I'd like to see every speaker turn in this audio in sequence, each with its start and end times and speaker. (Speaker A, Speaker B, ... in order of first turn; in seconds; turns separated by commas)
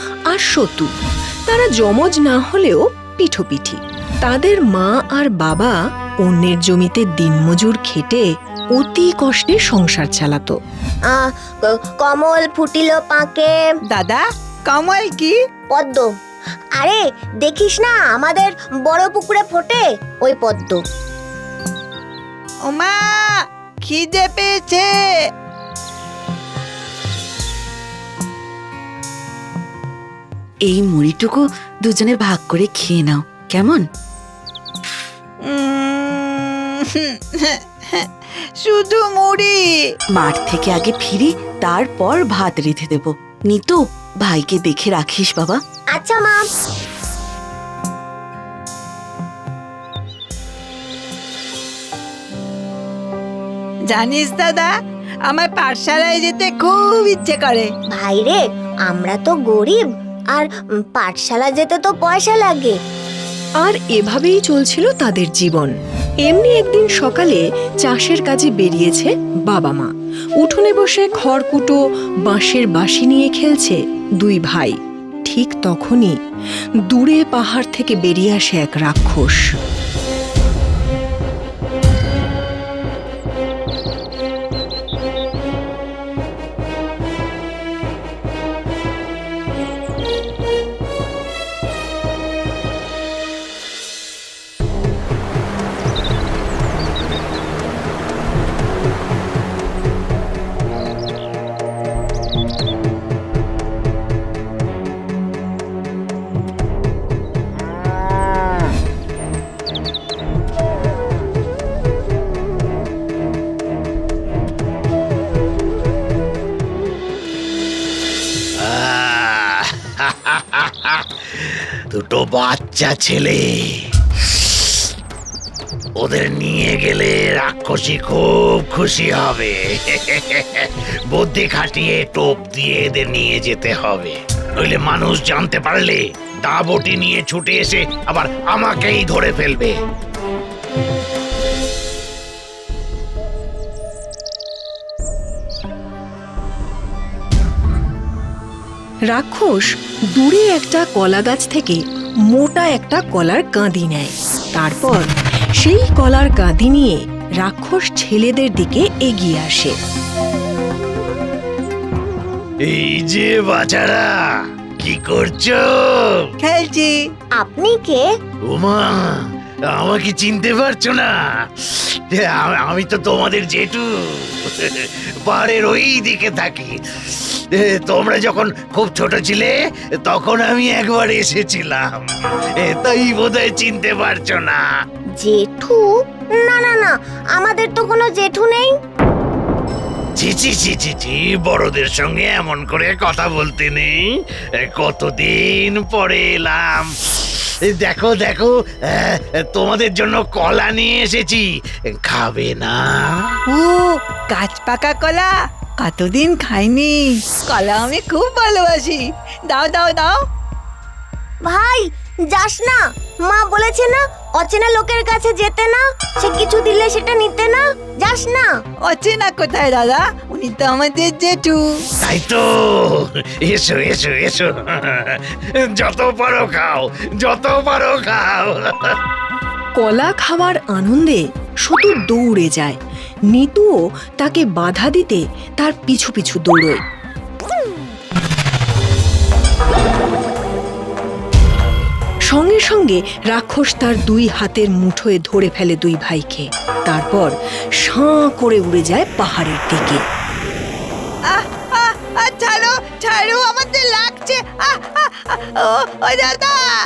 Speaker A: 0.3-0.9, Speaker A: 1.5-10.6, Speaker B: 11.1-13.6, Speaker C: 13.9-15.4, Speaker B: 15.7-16.1, Speaker B: 16.8-20.8, Speaker C: 22.6-25.2, Speaker D: 30.6-33.9, Speaker C: 35.4-38.1, Speaker C: 38.6-39.8, Speaker D: 40.1-45.6, Speaker B: 45.9-46.5, Speaker C: 53.9-54.7, Speaker C: 55.3-57.7, Speaker B: 57.9-62.8, Speaker A: 63.6-76.2, Speaker A: 76.9-79.5, Speaker E: 118.6-124.8, Speaker E: 126.0-139.8, Speaker A: 149.1-159.8, Speaker E: 162.7-164.1, Speaker E: 164.8-166.2, Speaker C: 166.4-167.0, Speaker B: 167.4-168.1, Speaker E: 168.5-182.1, Speaker E: 182.6-184.6, Speaker B: 185.2-188.7, Speaker E: 190.2-203.4, Speaker C: 203.5-210.2, Speaker B: 211.4-218.5, Speaker C: 218.9-221.8, Speaker E: 222.0-229.0, Speaker A: 229.8-232.8, Speaker A: 233.3-236.8, Speaker A: 242.3-250.0, Speaker C: 251.3-256.8